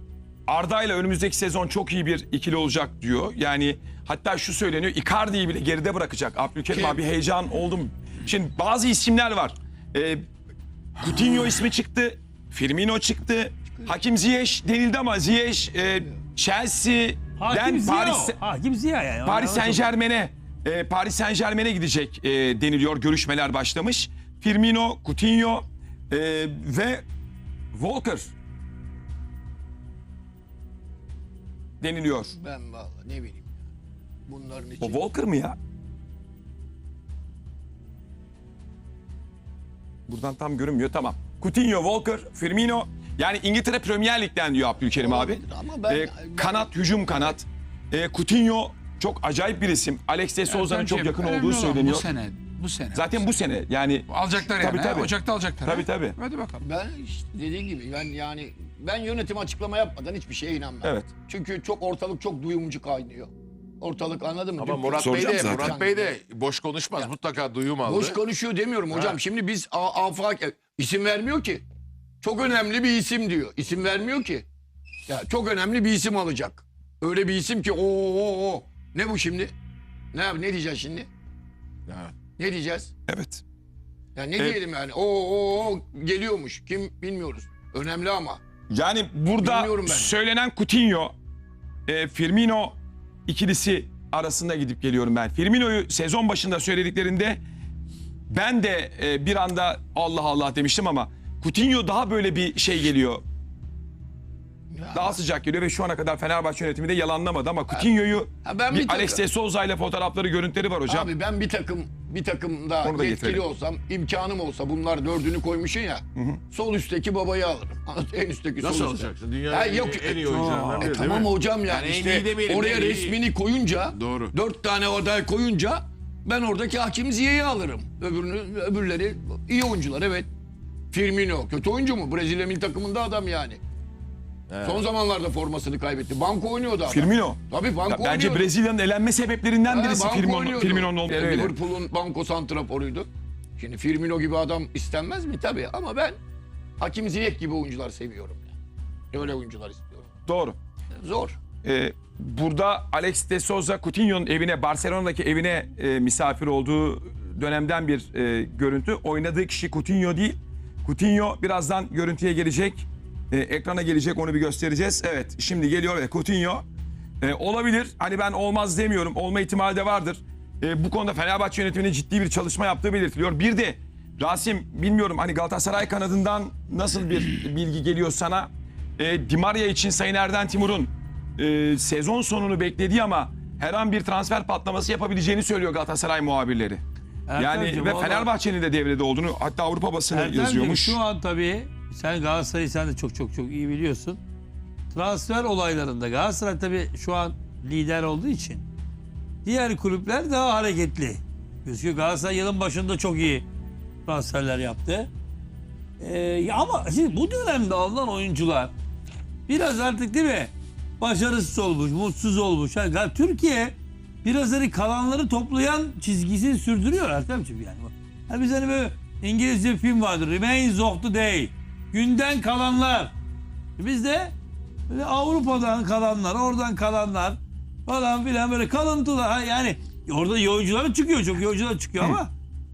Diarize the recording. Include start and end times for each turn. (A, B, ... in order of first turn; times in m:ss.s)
0:00.5-0:10.2 A
0:06.7-0:07.0 B
0:11.0-0:18.4 A
0:17.4-0:19.9 C
0:19.2-0:27.0 A
0:27.7-0:28.3 A
0:31.8-0:32.3 A
0:32.3-0:33.7 B
0:34.3-0:35.0 B
0:34.8-0:35.6 A
0:40.1-0:52.1 A
0:45.0-0:47.4 B
0:50.5-0:53.2 D
0:52.9-0:56.2 A
0:54.1-0:56.6 D
0:56.6-1:06.2 B
1:00.8-1:01.1 A
1:04.6-1:08.2 E
1:05.0-1:05.8 A
1:07.8-1:11.6 B
1:12.2-1:14.4 B
1:15.1-1:19.5 B
1:20.1-1:21.1 B
1:22.4-1:22.9 B
1:23.1-1:23.4 A
1:24.2-1:28.4 B
1:28.7-1:31.1 A
1:29.4-1:30.1 B
1:31.9-1:32.8 A
1:33.3-1:37.4 A
1:38.3-1:43.2 A
1:44.7-1:45.2 B
1:44.9-1:51.1 A
1:48.4-1:49.2 B
1:50.9-2:10.3 B
1:52.8-1:53.4 A
1:58.6-2:03.2 E
2:00.3-2:01.0 C
2:04.0-2:04.3 E
2:10.9-2:13.6 B
2:14.5-2:14.8 E
2:14.6-2:18.5 B
2:16.9-2:21.6 A
2:19.7-2:23.1 B
2:23.6-2:26.2 B
2:26.8-2:28.5 B
2:29.1-2:30.1 B
2:30.3-2:30.6 A
2:31.0-2:31.4 B
2:31.6-2:46.6 A
2:47.2-3:06.8 A
3:07.3-3:08.3 C
3:07.4-3:11.0 A
3:10.1-3:14.2 C
3:14.9-3:18.7 C
3:19.4-3:23.5 C
3:24.0-3:25.1 C
3:26.0-3:28.7 C
3:29.5-3:43.1 C
3:43.8-3:44.4 C
3:44.9-3:52.3 C